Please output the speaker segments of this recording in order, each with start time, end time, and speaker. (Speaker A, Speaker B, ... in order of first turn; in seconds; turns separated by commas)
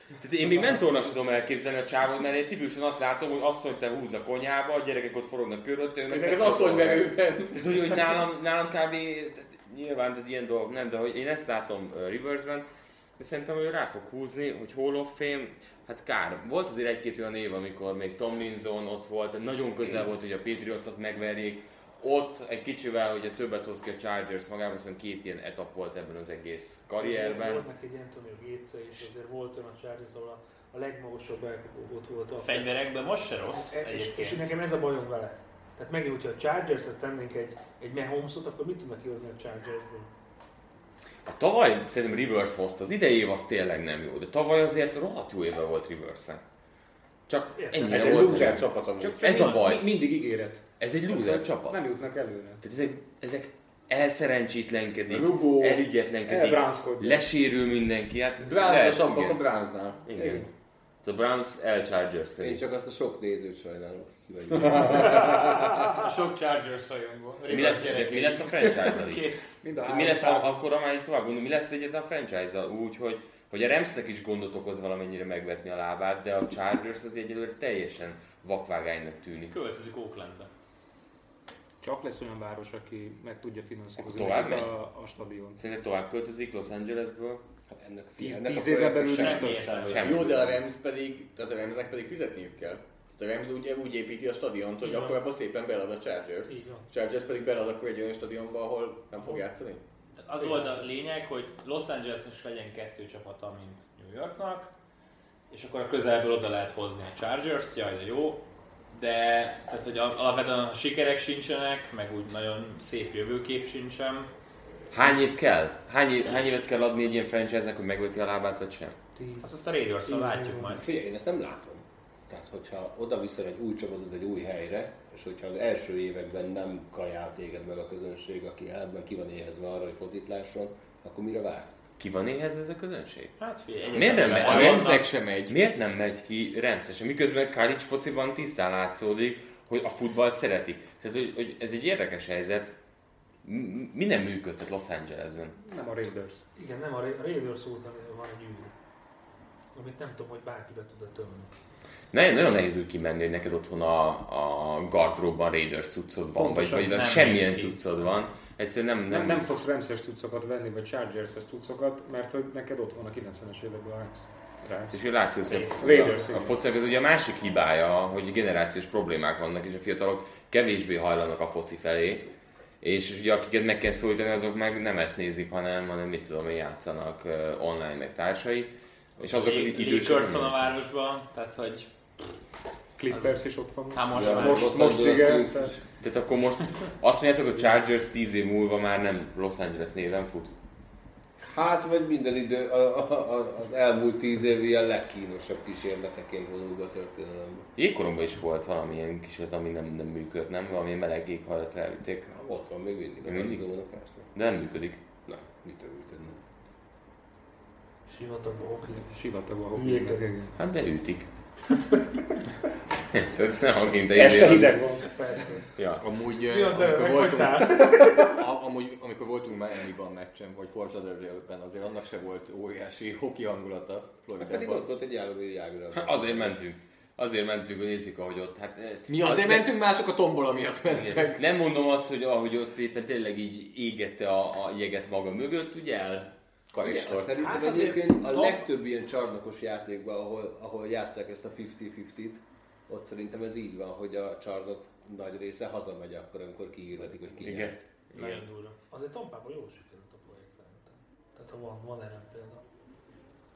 Speaker A: 0.2-12.7, Speaker B: 6.1-8.2, Speaker A: 13.2-27.6, Speaker C: 26.9-32.7, Speaker D: 32.4-34.5, Speaker C: 33.7-40.1, Speaker A: 41.2-46.4, Speaker A: 47.3-49.9, Speaker C: 47.6-48.2, Speaker B: 47.9-49.2, Speaker E: 48.2-48.5, Speaker E: 49.0-52.6, Speaker A: 50.8-51.8, Speaker A: 52.6-59.4, Speaker B: 55.1-55.9, Speaker E: 56.3-57.3, Speaker B: 58.4-60.0, Speaker A: 60.0-60.5, Speaker E: 60.1-60.5, Speaker A: 61.0-62.6, Speaker F: 62.4-65.7, Speaker D: 65.9-69.7, Speaker A: 67.5-79.6, Speaker E: 69.6-70.6, Speaker D: 79.5-80.5, Speaker E: 81.8-85.6, Speaker A: 84.0-84.7, Speaker A: 85.6-87.4, Speaker F: 87.7-90.2, Speaker E: 88.2-89.7, Speaker D: 89.0-90.2, Speaker A: 89.9-90.5, Speaker B: 90.0-99.8, Speaker C: 94.8-95.2, Speaker C: 96.5-96.9, Speaker D: 100.2-104.7, Speaker C: 100.4-101.0, Speaker D: 105.5-114.3, Speaker A: 114.9-119.0, Speaker C: 119.2-120.8, Speaker D: 119.4-120.9, Speaker F: 120.7-131.8, Speaker A: 132.0-133.4, Speaker D: 133.4-135.1, Speaker A: 133.9-142.8, Speaker B: 134.1-135.6, Speaker A: 143.4-145.5, Speaker E: 145.6-146.4, Speaker C: 146.6-148.7, Speaker C: 149.8-151.5, Speaker A: 152.1-159.5, Speaker E: 156.4-157.0, Speaker D: 156.9-157.8, Speaker E: 159.1-166.6, Speaker A: 164.9-172.3, Speaker A: 172.8-180.7, Speaker D: 179.2-181.9, Speaker E: 183.0-185.7, Speaker D: 183.1-183.4, Speaker D: 183.9-184.9, Speaker F: 184.1-185.8, Speaker A: 186.0-190.5, Speaker F: 191.4-197.7, Speaker A: 197.8-202.3, Speaker F: 202.3-204.3, Speaker A: 203.2-203.7, Speaker A: 204.3-205.0, Speaker F: 205.3-206.4, Speaker C: 208.1-209.1, Speaker E: 209.1-210.5, Speaker C: 209.7-210.3, Speaker A: 210.6-211.3, Speaker C: 211.7-212.0, Speaker A: 213.1-214.9, Speaker E: 214.1-215.1, Speaker C: 215.0-215.7, Speaker A: 215.8-216.0, Speaker B: 216.0-224.9, Speaker C: 216.5-218.3, Speaker F: 224.4-226.6, Speaker A: 225.9-229.7, Speaker B: 229.1-231.4, Speaker A: 230.9-236.3, Speaker B: 236.7-238.0, Speaker F: 236.8-247.8, Speaker C: 237.4-238.6, Speaker A: 247.4-248.4, Speaker C: 248.1-252.6